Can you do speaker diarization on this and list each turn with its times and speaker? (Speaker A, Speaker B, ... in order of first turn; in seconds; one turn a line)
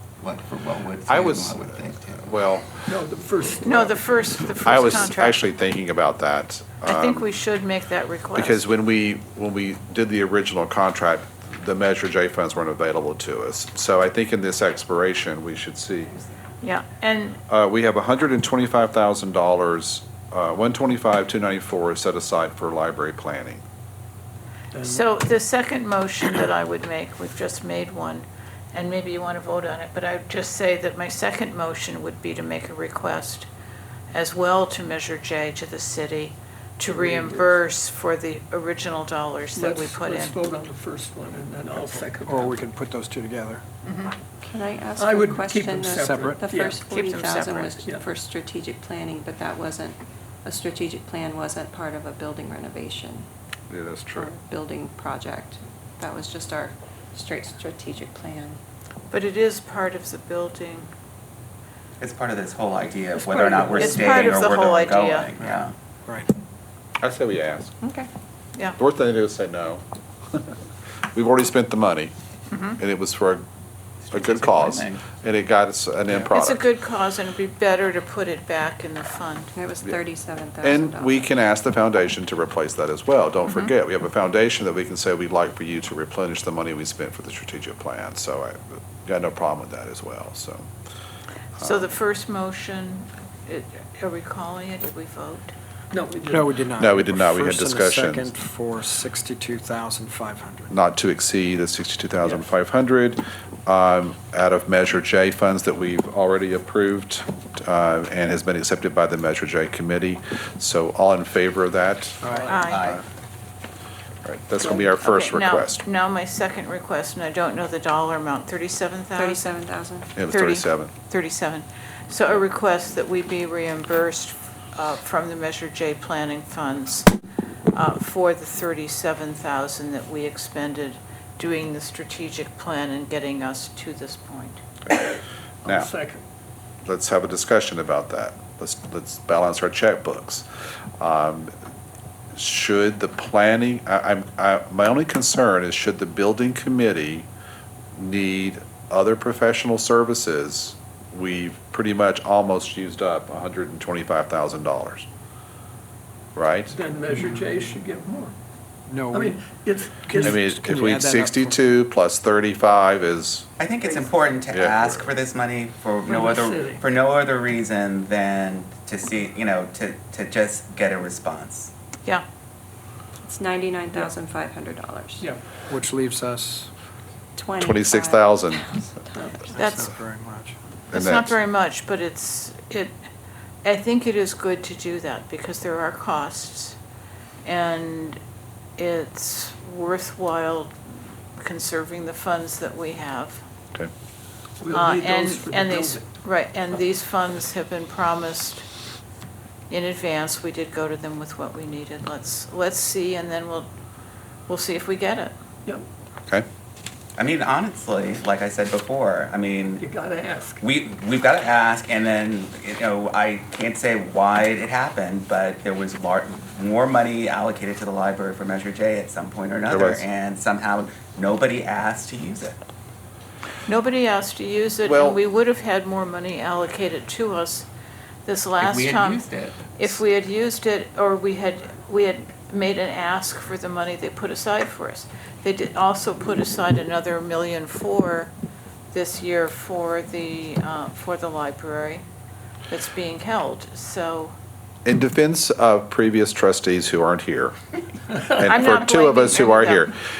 Speaker A: 0.2-2.3
Speaker B: 1.1-2.9
Speaker C: 2.9-3.9
Speaker D: 3.6-5.4
Speaker B: 4.6-7.3
Speaker D: 6.8-8.6
Speaker B: 8.3-16.2
Speaker D: 16.6-17.4
Speaker B: 17.5-23.6
Speaker C: 24.7-25.0
Speaker D: 24.8-33.5
Speaker D: 34.1-40.4
Speaker C: 36.9-37.4
Speaker C: 39.5-42.6
Speaker E: 42.2-43.6
Speaker D: 43.8-44.1
Speaker F: 44.4-53.2
Speaker C: 45.0-46.8
Speaker E: 46.0-46.4
Speaker D: 46.8-47.8
Speaker B: 53.7-54.3
Speaker F: 54.1-58.6
Speaker D: 59.1-60.9
Speaker A: 62.0-65.7
Speaker D: 63.2-65.3
Speaker B: 67.0-67.8
Speaker F: 67.8-68.1
Speaker B: 68.8-70.5
Speaker B: 71.1-72.1
Speaker D: 72.5-72.8
Speaker B: 72.8-73.4
Speaker A: 74.0-75.0
Speaker B: 74.1-76.6
Speaker D: 76.3-79.5
Speaker F: 79.5-81.3
Speaker B: 80.6-90.7
Speaker B: 91.6-91.8
Speaker D: 91.6-95.5
Speaker C: 95.9-96.4
Speaker E: 96.3-100.7
Speaker B: 96.8-98.3
Speaker B: 100.7-112.3
Speaker D: 112.4-113.0
Speaker A: 112.5-113.0
Speaker B: 114.2-115.8
Speaker D: 114.9-119.5
Speaker F: 119.2-120.1
Speaker B: 120.2-120.9
Speaker D: 120.3-127.1
Speaker D: 127.7-134.6
Speaker B: 135.6-135.9
Speaker C: 135.6-136.2
Speaker B: 136.8-140.4
Speaker B: 141.0-141.5
Speaker B: 142.3-147.3
Speaker B: 147.9-155.1
Speaker B: 156.3-156.7
Speaker C: 156.7-158.3
Speaker E: 158.9-159.4
Speaker C: 159.1-160.3
Speaker E: 160.0-161.6
Speaker B: 160.2-163.5
Speaker A: 163.6-171.7
Speaker B: 164.5-165.1
Speaker C: 166.0-166.8
Speaker F: 173.2-175.3
Speaker E: 175.7-176.7
Speaker F: 177.3-179.5
Speaker B: 177.6-178.6
Speaker E: 179.5-180.5
Speaker D: 179.5-179.9
Speaker B: 180.9-181.3
Speaker D: 180.9-183.0
Speaker D: 183.6-186.8
Speaker D: 187.4-188.2
Speaker D: 188.8-190.7
Speaker D: 191.4-193.4
Speaker C: 194.6-196.0
Speaker D: 194.7-198.7
Speaker D: 199.7-203.7
Speaker D: 204.5-205.3
Speaker A: 207.2-209.8
Speaker C: 209.8-210.6
Speaker A: 210.6-222.6
Speaker B: 219.7-220.0
Speaker D: 223.7-227.7
Speaker B: 224.8-225.2
Speaker D: 228.2-238.3
Speaker A: 228.6-229.8
Speaker D: 238.9-242.0
Speaker D: 242.7-244.3
Speaker B: 244.8-247.5
Speaker B: 248.3-249.9
Speaker D: 248.4-249.8